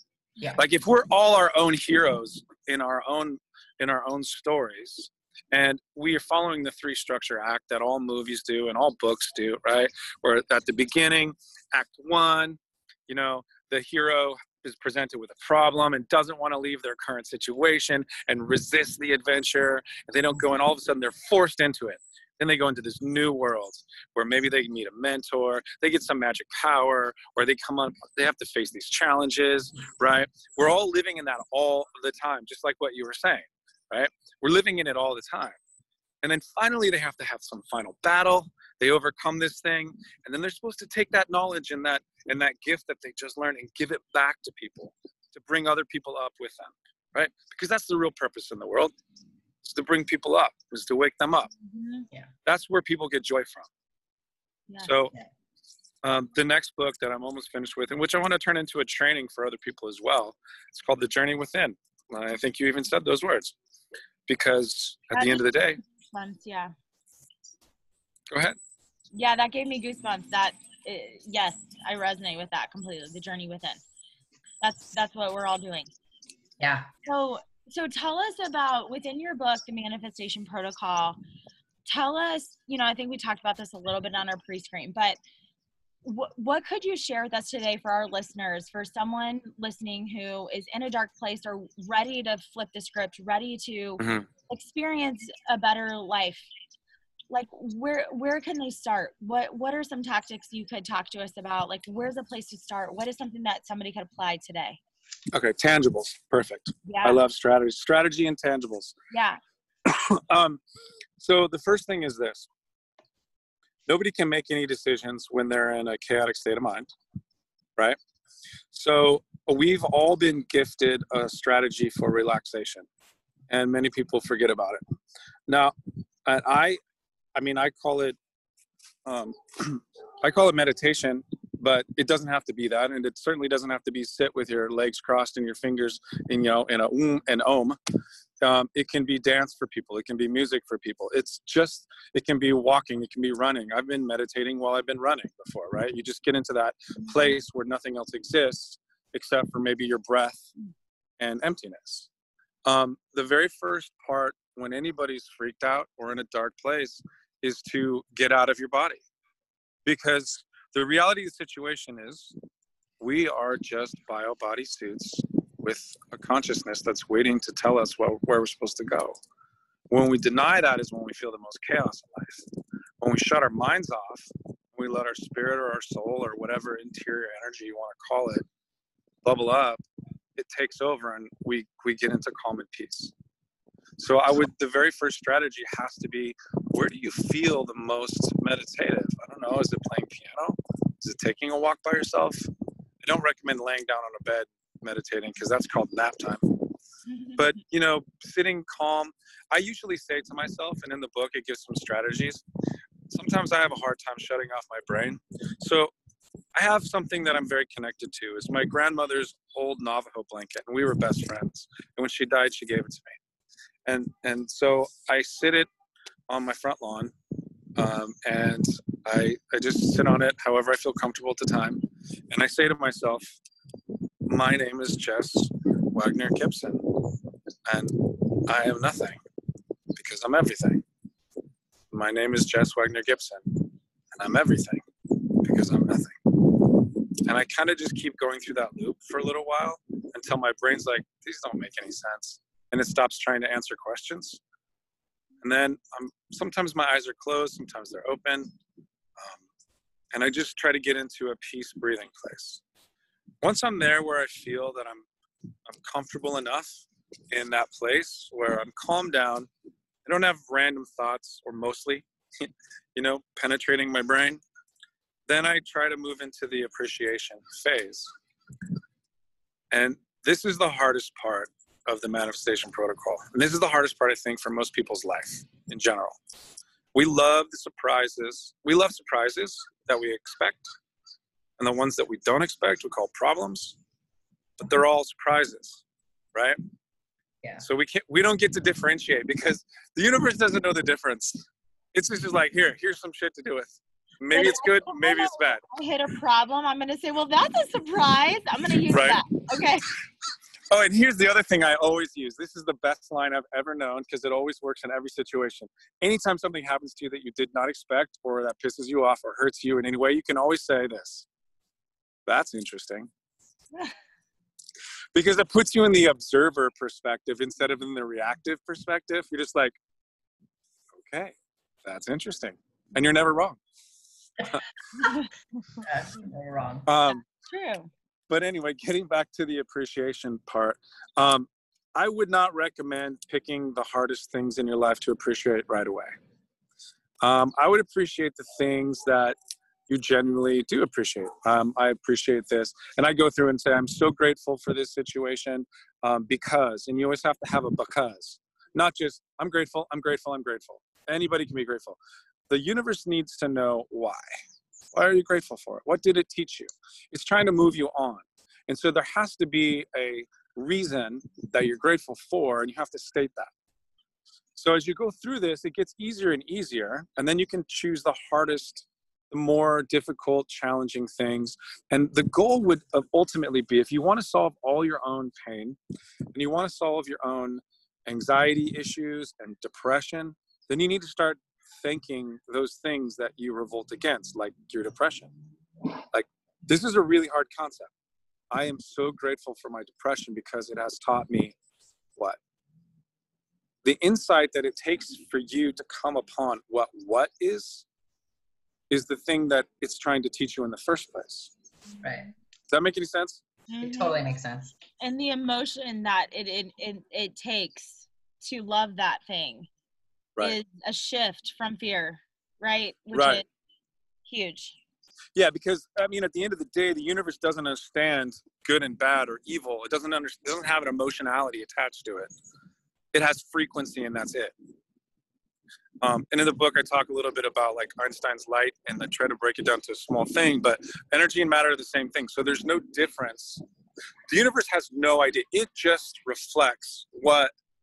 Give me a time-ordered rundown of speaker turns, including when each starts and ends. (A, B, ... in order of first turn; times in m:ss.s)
0:00.6-0:35.6 A
0:36.2-0:48.9 A
0:49.6-0:51.5 A
0:51.6-0:52.1 B
0:52.4-0:53.7 A
0:54.8-0:55.1 A
0:56.0-1:03.5 A
1:04.3-1:05.8 A
1:05.1-1:06.7 B
1:08.3-1:08.6 A
1:09.1-1:13.8 B
1:14.6-1:15.9 B
1:16.6-1:16.9 C
1:17.0-1:21.2 B
1:21.8-1:25.2 B
1:26.0-1:36.5 B
1:34.0-1:34.3 A
1:37.3-1:44.8 B
1:45.3-1:48.9 A
1:46.8-1:47.2 B
1:49.1-1:49.4 B
1:49.8-1:50.6 A
1:51.2-1:52.5 A
1:53.9-1:56.9 A
1:58.7-2:02.8 A
2:03.5-2:04.8 A
2:05.5-2:05.7 A
2:06.2-2:06.8 A
2:07.4-2:08.2 A
2:09.0-2:17.8 A
2:18.4-2:30.4 A
2:31.2-2:32.1 A
2:32.6-2:39.0 A
2:39.8-2:42.3 A
2:43.0-2:49.2 A
2:49.9-2:52.4 A
2:53.0-2:58.4 A
2:59.2-2:59.8 A
3:00.4-3:03.1 A
3:04.0-3:12.5 A
3:13.0-3:16.7 A
3:17.1-3:17.4 B
3:17.4-3:22.4 A
3:23.1-3:25.9 A
3:26.5-3:33.2 A
3:33.8-3:35.7 A
3:36.3-3:37.1 A
3:37.8-3:43.4 A
3:44.2-3:49.2 A
3:49.9-3:50.8 A
3:51.9-4:04.4 A
4:05.4-4:08.5 A
4:09.2-4:09.4 A
4:10.1-4:12.6 A
4:13.4-4:15.1 A
4:15.6-4:16.7 A
4:17.3-4:19.5 A
4:20.0-4:24.4 A
4:25.3-4:28.1 A
4:29.7-4:36.2 A
4:36.9-4:40.7 A
4:41.6-4:43.8 A
4:44.6-4:45.8 A
4:47.6-4:55.6 A
4:54.3-4:59.9 B
4:58.9-4:59.2 A
5:00.7-5:11.2 A
5:12.2-5:13.1 A
5:15.1-5:19.8 A
5:21.0-5:23.6 A
5:25.0-5:25.3 B
5:25.8-5:26.8 C
5:26.8-5:27.2 A
5:27.3-5:27.9 B
5:28.3-5:36.1 A
5:37.2-5:39.4 A
5:39.9-5:52.0 A
5:52.5-5:54.2 A
5:54.9-6:03.5 A
6:04.6-6:15.8 A
6:16.3-6:25.3 A
6:26.1-6:27.9 A
6:28.5-6:31.6 A
6:33.8-6:37.8 A
6:38.9-6:41.5 A
6:42.0-6:42.3 C
6:42.7-6:43.4 A
6:43.7-6:44.2 B
6:43.8-6:44.7 C
6:45.0-6:49.7 B
6:50.4-6:53.4 B
6:53.1-6:53.4 A
6:54.2-6:54.8 B
6:55.3-7:02.3 A
7:03.1-7:04.5 A
7:06.0-7:13.6 A
7:14.3-7:17.5 A